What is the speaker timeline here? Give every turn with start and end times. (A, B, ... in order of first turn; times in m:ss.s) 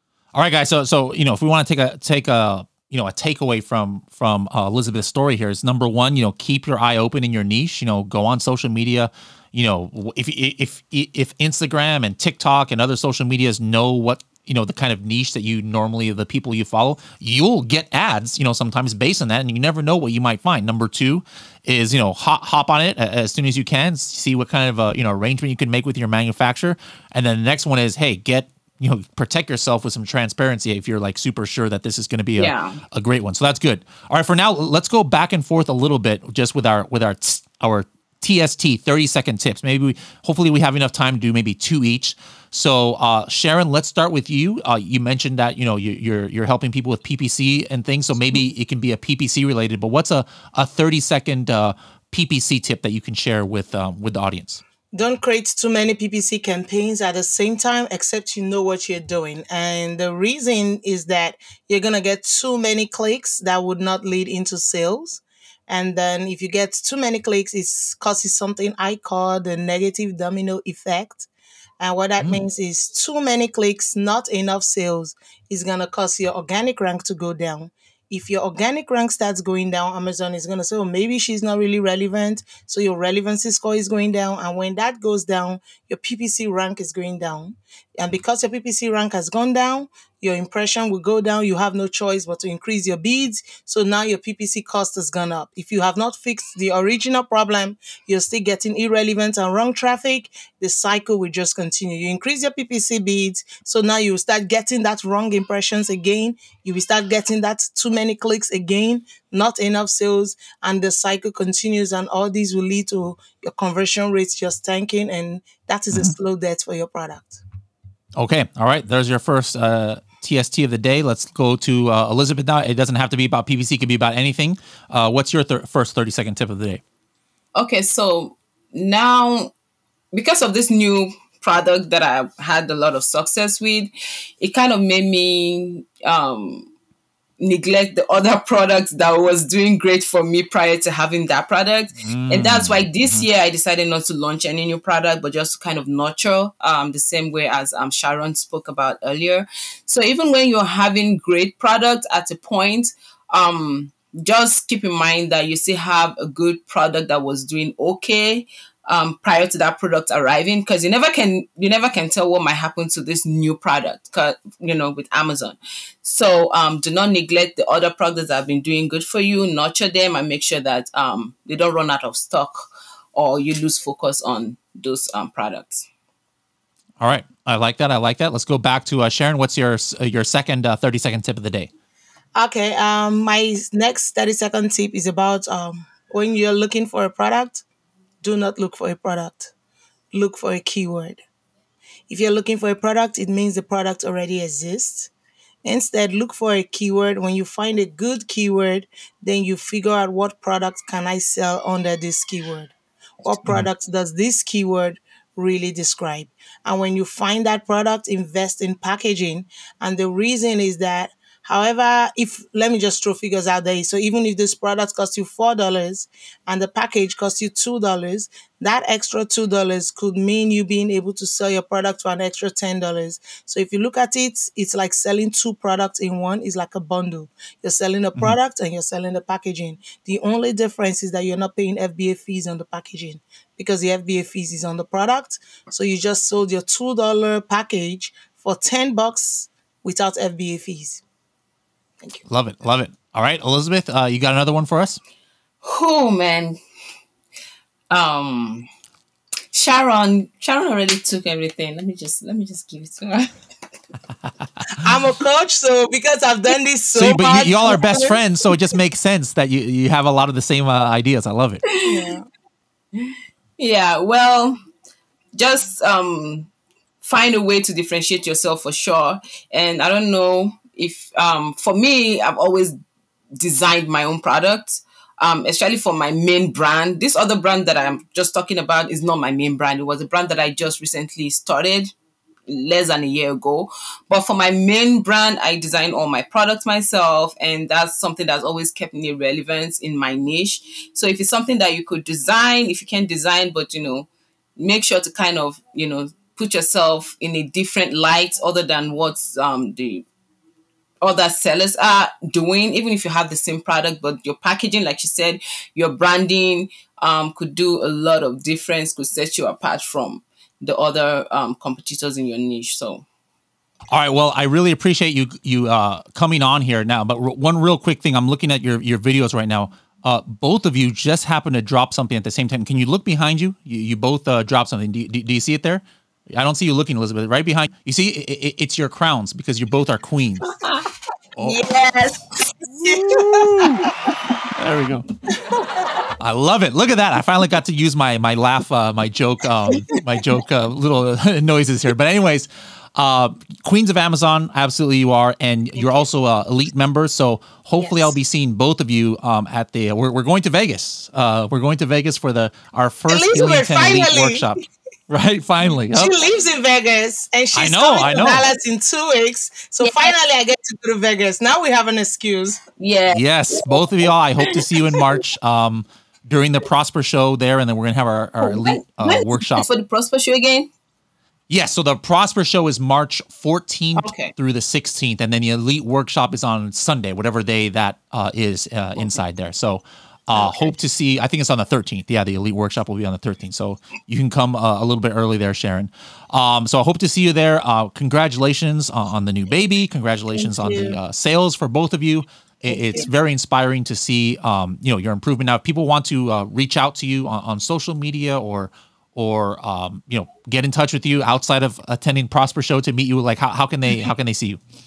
0:00.3-0:54.6 A
0:32.4-0:32.8 B
0:54.9-1:11.3 C
1:11.8-1:57.4 C
1:58.2-2:06.8 A
2:07.6-2:09.5 B
2:10.1-2:16.7 B
2:17.4-2:55.9 B
2:22.0-2:23.3 A
2:57.0-3:01.7 A
3:02.4-3:07.6 C
3:08.2-3:09.5 C
3:10.1-3:11.2 C
3:12.1-3:15.1 C
3:15.6-4:01.0 C
4:02.3-4:05.0 A
4:05.6-4:06.6 B
4:07.9-4:08.7 B
4:09.5-4:13.4 B
4:14.8-4:18.2 C
4:17.0-4:21.6 A
4:21.7-4:22.1 B
4:21.8-4:22.3 C
4:23.0-4:24.6 B
4:25.4-4:26.5 B
4:27.0-4:32.7 B
4:33.4-4:41.9 B
4:42.5-5:00.0 B
5:01.0-5:13.0 B
5:13.9-5:30.5 A
5:30.6-5:30.9 B
5:31.4-5:31.6 A
5:31.4-5:32.2 B
5:32.8-5:33.9 A
5:32.8-5:33.9 C
5:34.6-5:35.1 A
5:36.2-5:56.1 A
5:47.8-5:48.1 C
5:53.1-5:54.6 C
5:55.9-6:02.6 C
5:57.5-5:58.4 A
5:59.8-6:00.1 B
6:02.8-6:05.1 B
6:03.1-6:09.7 A
6:08.4-6:10.7 B
6:11.5-6:44.6 A
6:14.0-6:14.3 B
6:30.3-6:31.0 C
6:32.7-6:33.1 C